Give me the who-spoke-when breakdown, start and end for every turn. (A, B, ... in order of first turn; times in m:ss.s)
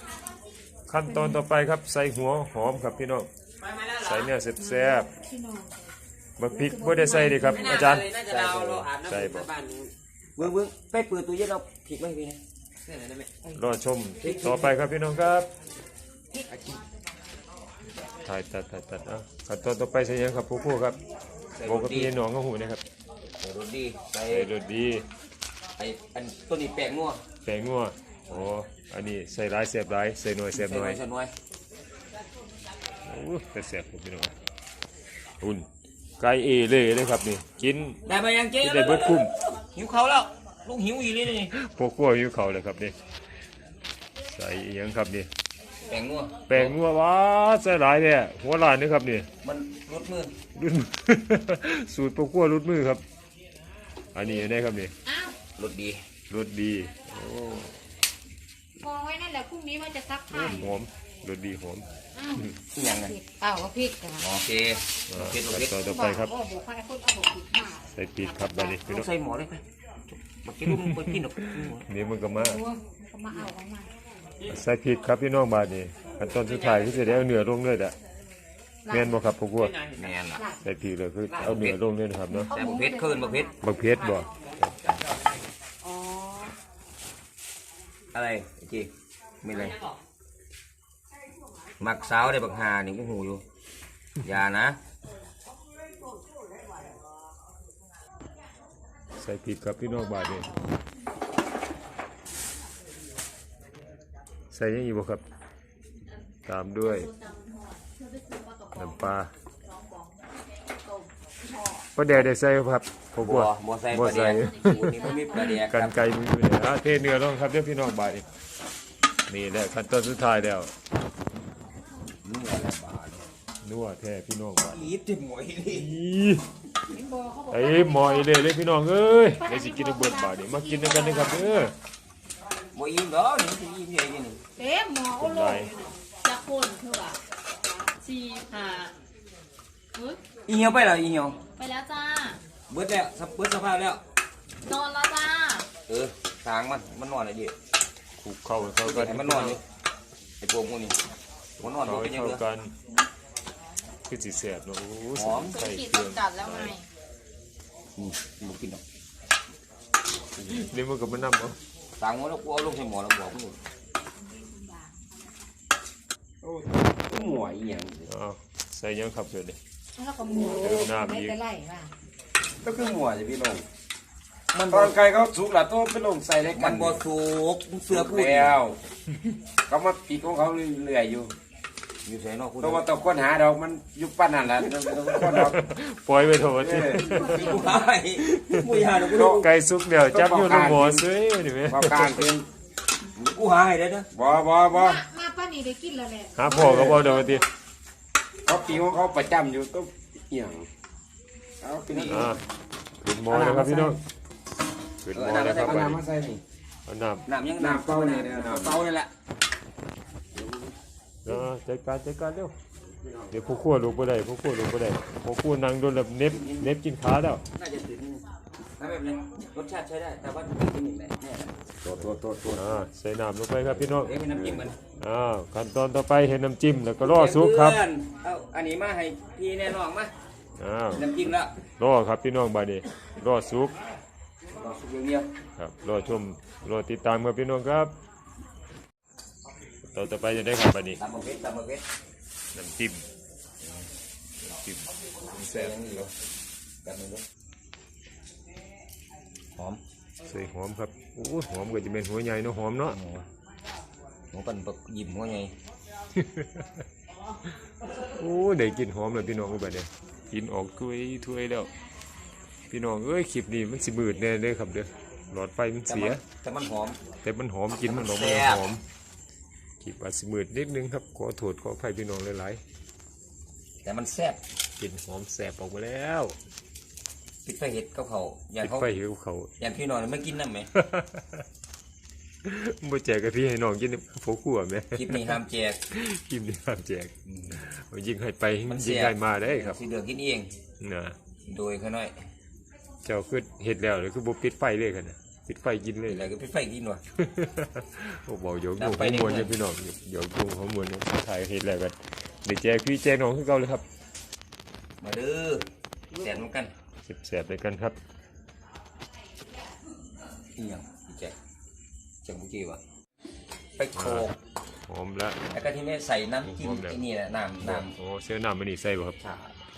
0:00.9-0:03.3 A
0:03.9-0:05.1 A
0:04.6-0:05.7 B
0:06.4-0:09.5 A
0:06.5-0:07.8 B
0:07.6-0:09.9 C
0:08.0-0:08.8 D
0:10.4-0:12.4 D
0:12.8-0:13.3 C
0:13.6-0:15.5 A
0:14.2-0:14.8 D
0:16.5-0:16.8 C
0:18.2-0:21.0 A
0:21.6-0:22.2 D
0:21.6-0:22.8 A
0:23.4-0:24.5 D
0:24.3-0:25.1 A
0:25.8-0:27.2 D
0:27.4-0:31.0 A
0:30.5-0:31.3 D
0:33.0-0:34.3 A
0:35.4-0:35.7 A
0:36.2-0:38.0 A
0:38.1-0:41.5 D
0:38.6-0:39.3 A
0:41.5-0:43.0 A
0:44.2-0:45.3 A
0:45.9-0:46.8 D
0:46.5-0:49.3 A
0:49.4-0:50.4 D
0:50.6-0:53.0 A
0:54.1-0:54.9 A
0:55.1-0:55.4 B
0:55.6-0:56.0 D
0:56.3-0:57.8 A
0:58.8-1:00.7 B
1:00.3-1:02.5 A
1:02.2-1:04.2 B
1:02.7-1:03.2 D
1:04.2-1:05.8 D
1:05.1-1:06.3 A
1:05.8-1:08.8 B
1:07.9-1:09.1 A
1:08.9-1:11.9 D
1:10.8-1:12.6 A
1:12.3-1:13.9 B
1:14.5-1:18.0 A
1:18.8-1:19.2 B
1:18.9-1:19.8 A
1:19.9-1:20.4 D
1:20.4-1:20.6 B
1:20.6-1:22.6 A
1:21.3-1:21.8 D
1:22.3-1:23.6 B
1:22.5-1:23.5 D
1:23.6-1:24.7 A
1:25.9-1:26.5 B
1:28.1-1:28.9 D
1:29.4-1:29.8 D
1:31.8-1:33.4 D
1:34.2-1:34.8 D
1:39.2-1:40.5 A
1:44.5-1:45.2 A
1:46.5-1:47.1 A
1:47.1-1:48.8 E
1:48.8-1:49.3 A
1:49.7-1:50.2 E
1:52.0-1:58.3 A
1:53.2-1:56.1 D
1:59.3-2:00.7 A
2:02.2-2:03.2 D
2:03.6-2:04.9 A
2:04.6-2:05.9 D
2:05.7-2:06.4 A
2:06.9-2:08.3 B
2:07.5-2:11.7 A
2:09.4-2:11.7 B
2:12.7-2:14.4 D
2:14.6-2:15.9 B
2:15.2-2:15.7 A
2:16.2-2:17.2 E
2:18.0-2:18.9 E
2:20.5-2:21.4 D
2:21.6-2:22.4 E
2:22.7-2:24.0 D
2:24.6-2:25.7 E
2:25.9-2:27.6 D
2:28.2-2:29.6 A
2:28.8-2:29.6 D
2:30.4-2:31.0 D
2:31.6-2:32.4 D
2:31.6-2:32.7 A
2:34.1-2:36.8 A
2:35.2-2:35.6 D
2:35.6-2:36.8 E
2:38.0-2:38.8 D
2:40.4-2:41.6 A
2:42.0-2:43.6 D
2:46.9-2:48.1 D
2:48.1-2:49.6 A
2:50.0-2:51.9 B
2:50.4-2:51.4 A
2:52.6-2:53.6 C
2:54.5-2:55.0 D
2:54.7-2:57.0 C
2:56.5-2:58.6 D
2:57.9-2:58.8 C
2:59.7-3:01.3 C
3:02.0-3:02.8 D
3:02.6-3:05.6 C
3:05.1-3:07.6 A
3:06.6-3:07.2 C
3:07.1-3:09.4 D
3:08.4-3:12.3 A
3:09.1-3:09.4 C
3:10.1-3:11.1 C
3:11.6-3:12.5 C
3:13.2-3:14.1 D
3:14.1-3:15.0 C
3:14.7-3:17.4 B
3:16.4-3:17.5 A
3:16.5-3:17.1 C
3:18.5-3:20.7 C
3:21.6-3:22.4 C
3:21.9-3:22.4 D
3:22.1-3:22.4 A
3:23.0-3:24.0 A
3:23.3-3:24.0 C
3:25.0-3:26.0 A
3:25.1-3:26.0 D
3:25.7-3:26.4 C
3:26.9-3:27.2 A
3:27.2-3:29.1 D
3:27.6-3:28.8 C
3:30.4-3:30.7 D
3:31.2-3:32.5 A
3:33.0-3:33.3 C
3:33.3-3:37.4 A
3:36.3-3:36.7 D
3:37.6-3:38.2 D
3:38.8-3:41.5 D
3:41.8-3:42.8 C
3:42.4-3:47.8 A
3:43.7-3:44.8 D
3:47.0-3:50.1 D
3:50.6-3:51.2 A
3:50.9-3:51.5 D
3:51.8-3:53.8 A
3:54.5-3:55.3 D
3:55.6-3:57.9 A
3:59.9-4:01.0 A
4:01.0-4:01.8 D
4:02.5-4:03.0 A
4:04.4-4:06.0 A
4:05.3-4:06.1 D
4:06.8-4:07.2 D
4:10.3-4:13.0 A
4:12.9-4:13.3 D
4:14.3-4:15.5 D
4:16.2-4:16.7 A
4:18.2-4:21.7 A
4:22.7-4:26.2 A
4:25.9-4:27.0 D
4:27.2-4:28.8 A
4:27.8-4:28.6 D
4:29.8-4:32.6 A
4:33.8-4:34.4 D
4:34.8-4:36.4 A
4:37.4-4:38.9 D
4:38.6-4:39.5 A
4:39.6-4:40.7 D
4:40.7-4:41.4 A
4:42.4-4:45.4 A
4:45.0-4:45.8 D
4:45.9-4:49.8 A
4:47.3-4:47.6 D
4:48.7-4:50.5 D
4:50.8-4:51.2 A
4:51.5-4:52.2 D
4:53.0-4:56.3 A
4:56.1-4:57.0 D
4:57.2-5:03.8 A
4:58.8-4:59.6 D
5:05.0-5:06.7 D
5:07.0-5:08.0 A
5:10.6-5:11.4 D
5:12.2-5:12.8 D
5:13.8-5:14.4 D
5:14.0-5:14.3 A
5:14.9-5:15.4 A
5:15.5-5:18.0 D
5:16.4-5:17.0 A
5:17.6-5:19.2 A
5:19.2-5:19.6 D